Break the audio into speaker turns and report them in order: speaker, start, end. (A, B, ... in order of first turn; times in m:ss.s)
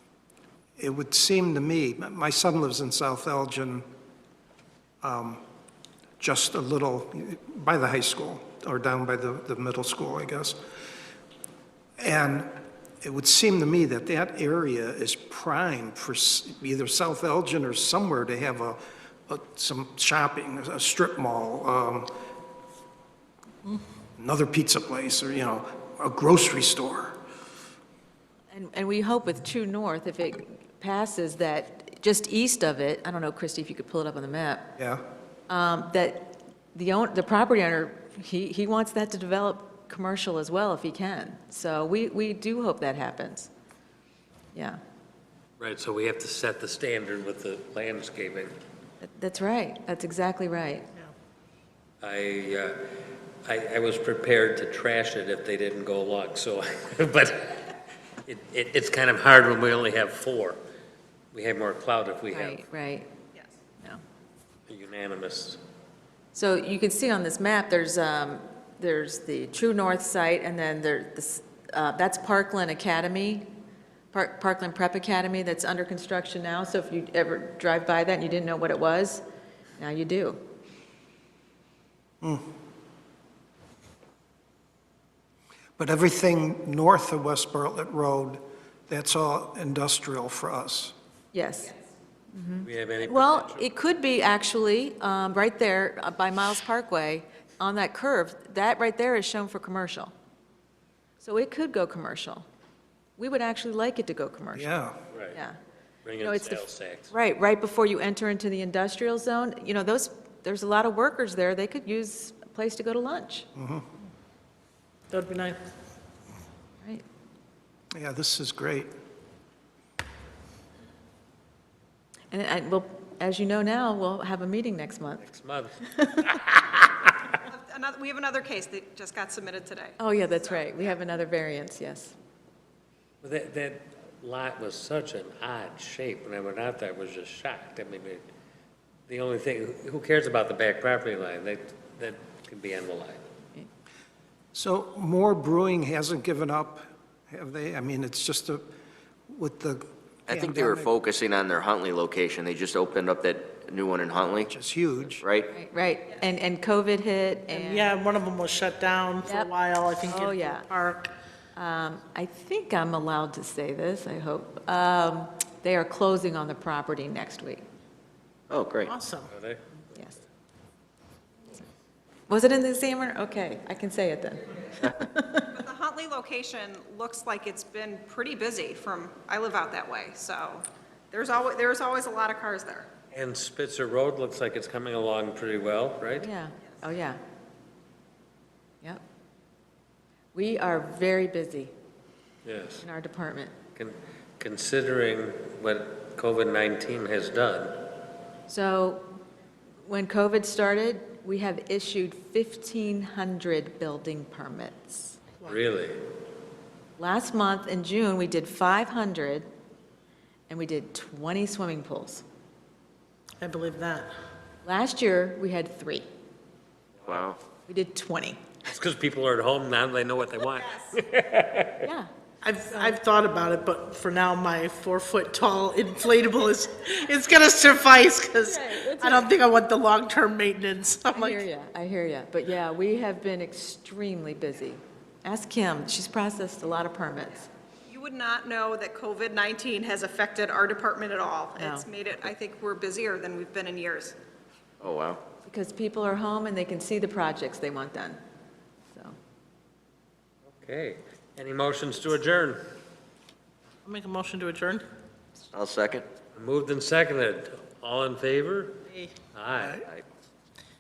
0:00.8-0:03.8 A
0:05.0-0:05.4 A
0:06.2-0:10.6 A
0:12.0-0:22.1 A
0:24.2-0:27.2 A
0:28.5-0:34.7 B
0:34.8-0:35.0 A
0:35.5-0:43.5 B
0:44.5-0:44.8 B
0:45.6-0:48.5 C
0:49.0-0:50.9 B
0:52.0-0:52.8 C
0:53.4-1:00.6 C
1:01.3-1:02.6 C
1:02.3-1:03.1 B
1:04.7-1:05.6 C
1:06.3-1:13.5 B
1:14.1-1:19.2 B
1:19.8-1:20.4 B
1:22.2-1:22.5 A
1:25.8-1:31.0 A
1:31.3-1:31.8 B
1:32.3-1:40.1 B
1:32.6-1:33.6 C
1:41.2-1:42.4 B
1:43.2-1:44.7 B
1:44.6-1:45.0 A
1:45.1-1:45.4 C
1:45.3-1:45.6 B
1:46.0-1:47.1 C
1:46.2-1:53.5 B
1:53.6-1:53.8 A
1:55.1-1:55.6 D
1:57.9-1:58.9 A
2:02.3-2:05.3 B
2:05.2-2:06.4 C
2:05.9-2:06.8 B
2:07.4-2:11.0 E
2:10.0-2:12.2 B
2:13.2-2:18.2 C
2:19.1-2:23.2 C
2:24.5-2:28.7 A
2:29.3-2:30.9 A
2:30.3-2:34.5 F
2:34.5-2:35.3 A
2:35.2-2:35.5 F
2:35.5-2:37.9 B
2:37.5-2:41.1 D
2:39.2-2:39.5 B
2:40.1-2:40.7 B
2:41.6-2:47.6 B
2:48.5-2:48.9 F
2:48.8-2:49.3 D
2:49.3-2:49.6 C
2:52.3-2:55.5 B
2:55.5-3:02.9 E
3:03.1-3:06.3 C
3:06.2-3:07.2 B
3:10.3-3:11.7 B
3:12.4-3:12.8 C
3:12.8-3:13.6 B
3:13.8-3:18.0 C
3:18.5-3:19.2 B
3:19.9-3:25.2 B
3:25.5-3:26.0 C
3:27.0-3:29.5 B
3:30.5-3:32.2 B
3:33.4-3:34.1 D
3:34.6-3:36.0 B
3:37.1-3:37.4 F
3:37.7-3:38.4 B
3:38.7-3:41.9 C
3:40.6-3:41.0 E
3:41.8-3:42.1 B
3:42.4-3:51.5 D
3:42.7-3:43.0 B
3:48.6-3:49.2 B
3:51.1-3:57.5 B
3:57.9-4:04.2 E
4:01.6-4:01.9 B
4:04.8-4:05.2 F
4:05.4-4:08.2 B
4:10.5-4:12.6 C
4:13.8-4:14.8 D
4:15.5-4:16.1 F
4:16.3-4:18.8 C
4:19.3-4:19.8 C